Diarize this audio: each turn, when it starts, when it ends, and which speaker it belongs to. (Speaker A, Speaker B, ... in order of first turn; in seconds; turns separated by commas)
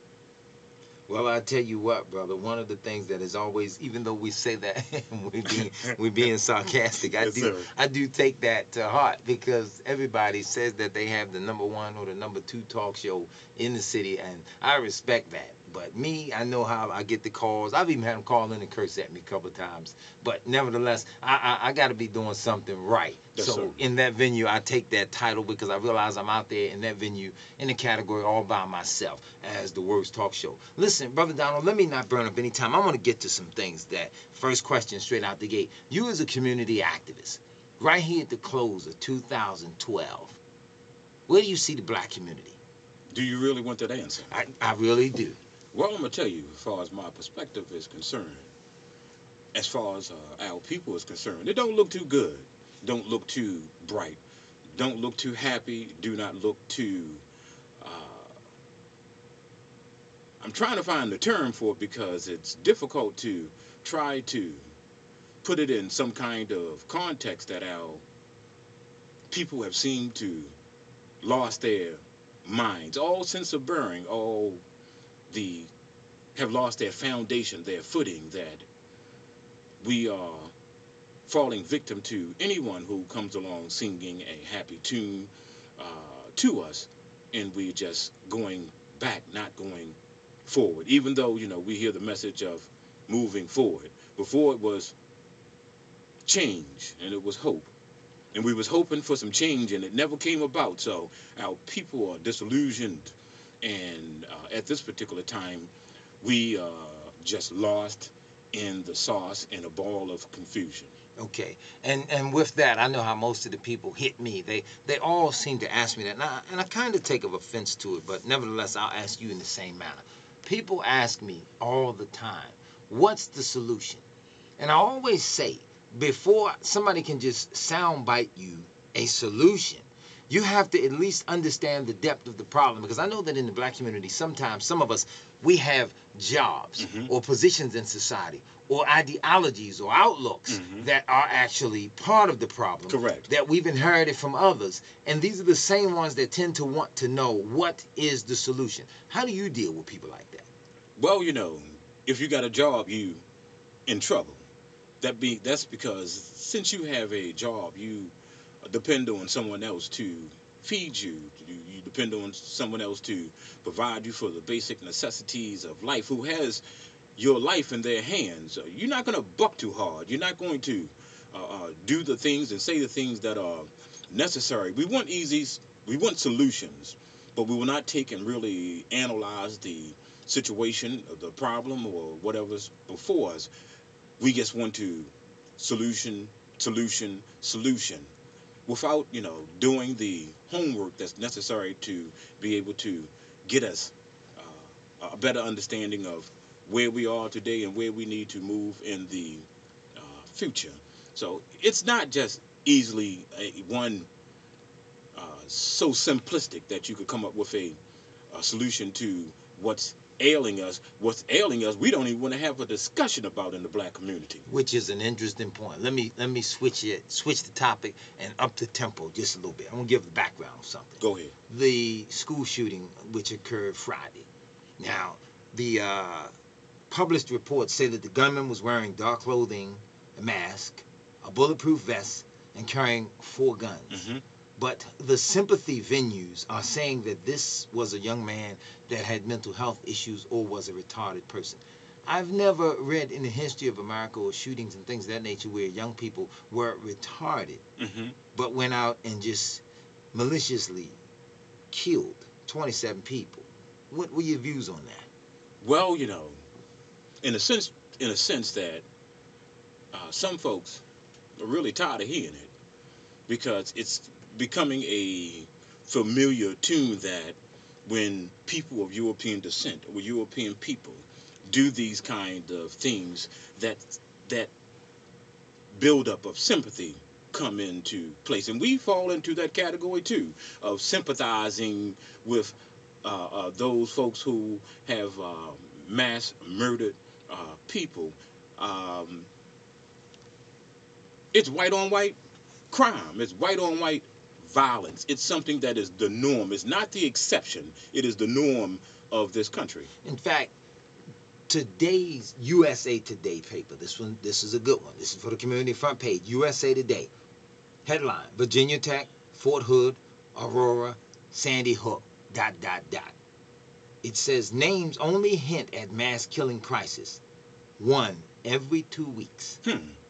Speaker A: 1.1-40.4, Speaker B: 7.0-7.7, Speaker B: 23.4-23.8, Speaker A: 41.3-42.6, Speaker B: 43.1-44.3, Speaker A: 44.3-45.4, Speaker B: 45.7-48.5, Speaker B: 49.5-54.2, Speaker B: 54.7-57.2, Speaker B: 57.8-58.3, Speaker B: 60.4-64.7, Speaker B: 65.4-68.0, Speaker B: 69.3-70.5, Speaker B: 71.2-74.6, Speaker B: 75.3-75.7, Speaker B: 76.3-78.7, Speaker B: 79.8-80.5, Speaker B: 81.3-95.0, Speaker B: 96.3-97.7, Speaker B: 98.3-110.9, Speaker A: 111.2-124.0, Speaker A: 124.6-150.5, Speaker B: 136.8-137.1, Speaker B: 140.5-140.9, Speaker B: 142.9-143.3, Speaker B: 151.0-153.2, Speaker B: 153.9-154.4, Speaker B: 155.0-166.6, Speaker B: 167.2-183.5, Speaker B: 184.2-188.1, Speaker B: 188.7-204.1, Speaker B: 205.2-207.8, Speaker B: 208.3-214.5, Speaker A: 214.5-224.3, Speaker B: 221.0-221.3, Speaker A: 224.8-226.3, Speaker A: 226.9-234.1, Speaker B: 233.9-234.2, Speaker A: 234.6-247.6, Speaker B: 247.8-248.2, Speaker A: 248.3-251.0, Speaker A: 251.7-255.1, Speaker B: 255.6-256.4, Speaker B: 257.2-258.9, Speaker B: 259.9-260.8, Speaker B: 261.4-262.5, Speaker B: 263.3-274.5, Speaker B: 275.7-289.3, Speaker B: 291.3-292.2, Speaker B: 292.7-299.9, Speaker A: 300.0-300.5, Speaker A: 301.5-307.1, Speaker A: 307.9-313.2, Speaker A: 314.0-317.2, Speaker A: 317.8-319.6, Speaker B: 319.6-320.0